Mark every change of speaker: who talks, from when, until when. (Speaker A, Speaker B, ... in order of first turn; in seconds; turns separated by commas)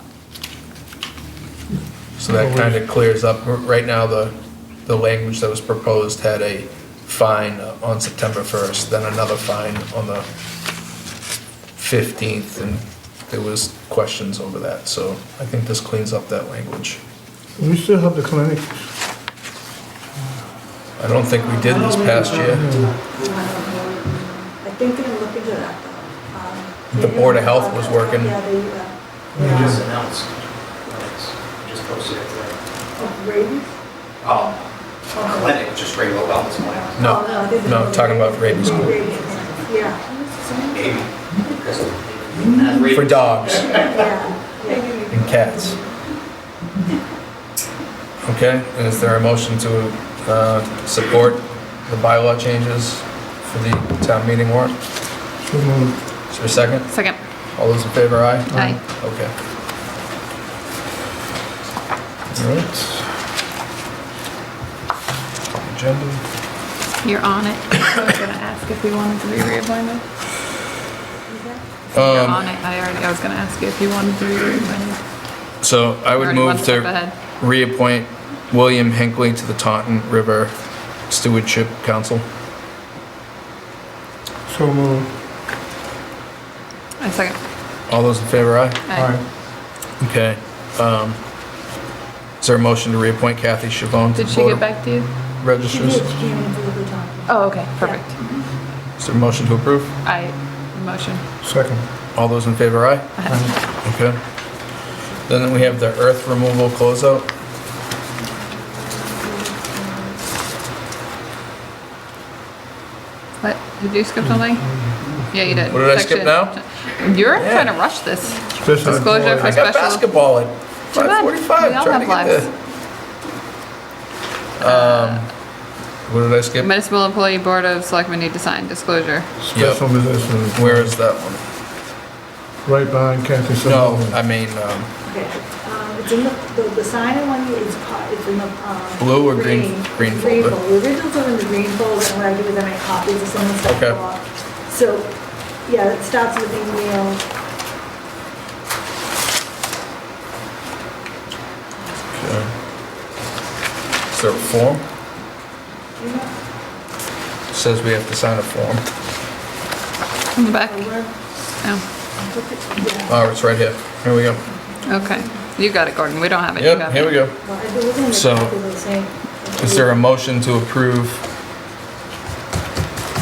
Speaker A: 2.2-10.3, Speaker B: 2.3-2.8, Speaker A: 11.8-17.0, Speaker B: 17.6-18.8, Speaker A: 21.0-22.7, Speaker C: 21.3-29.8, Speaker B: 22.5-22.9, Speaker A: 26.9-28.4, Speaker B: 29.4-29.8, Speaker D: 29.5-32.6, Speaker C: 33.0-33.8, Speaker D: 34.2-37.1, Speaker C: 35.1-35.6, Speaker C: 37.0-40.1, Speaker A: 37.0-38.9, Speaker D: 40.7-44.1, Speaker A: 42.9-43.8, Speaker C: 43.8-45.0, Speaker A: 45.1-45.8, Speaker A: 48.2-54.8, Speaker B: 55.4-56.0, Speaker A: 56.3-56.9, Speaker E: 56.9-57.2, Speaker A: 57.5-59.3, Speaker E: 58.5-58.8, Speaker A: 62.3-63.1, Speaker A: 65.5-66.2, Speaker E: 67.0-70.0, Speaker C: 71.3-71.7, Speaker E: 71.9-75.0, Speaker A: 71.9-72.5, Speaker A: 75.6-80.5, Speaker E: 76.2-77.1, Speaker A: 81.1-82.3, Speaker B: 84.5-85.1, Speaker E: 87.0-87.4, Speaker A: 87.9-88.8, Speaker E: 88.9-89.1, Speaker B: 88.9-89.2, Speaker A: 90.0-91.2, Speaker A: 92.4-94.7, Speaker E: 94.2-95.1, Speaker A: 95.4-96.0, Speaker C: 95.7-98.0, Speaker E: 97.3-98.2, Speaker A: 99.0-99.9, Speaker E: 100.0-101.2, Speaker B: 101.4-101.8, Speaker A: 102.2-103.1, Speaker E: 103.2-103.5, Speaker B: 103.3-103.5, Speaker A: 103.8-104.2, Speaker A: 105.3-107.3, Speaker C: 108.8-110.1, Speaker E: 113.4-114.8, Speaker E: 115.3-120.1, Speaker A: 115.7-116.5, Speaker A: 117.4-117.7, Speaker B: 118.6-119.6, Speaker A: 118.8-122.5, Speaker E: 120.9-122.5, Speaker A: 124.6-125.3, Speaker E: 124.6-125.3, Speaker A: 126.1-126.7, Speaker E: 126.6-129.3, Speaker B: 129.4-131.0, Speaker A: 129.5-131.4, Speaker B: 132.7-134.2, Speaker A: 133.6-134.9, Speaker C: 135.1-147.2, Speaker A: 139.0-140.6, Speaker A: 143.7-144.0, Speaker A: 152.1-152.5, Speaker A: 154.1-154.8, Speaker C: 156.0-156.3, Speaker A: 157.5-158.9, Speaker E: 160.4-160.8, Speaker C: 160.6-161.2, Speaker C: 162.2-163.3, Speaker A: 163.1-164.4, Speaker E: 164.9-167.2, Speaker A: 166.6-167.4, Speaker C: 167.4-169.9, Speaker A: 168.1-168.6, Speaker A: 169.6-171.2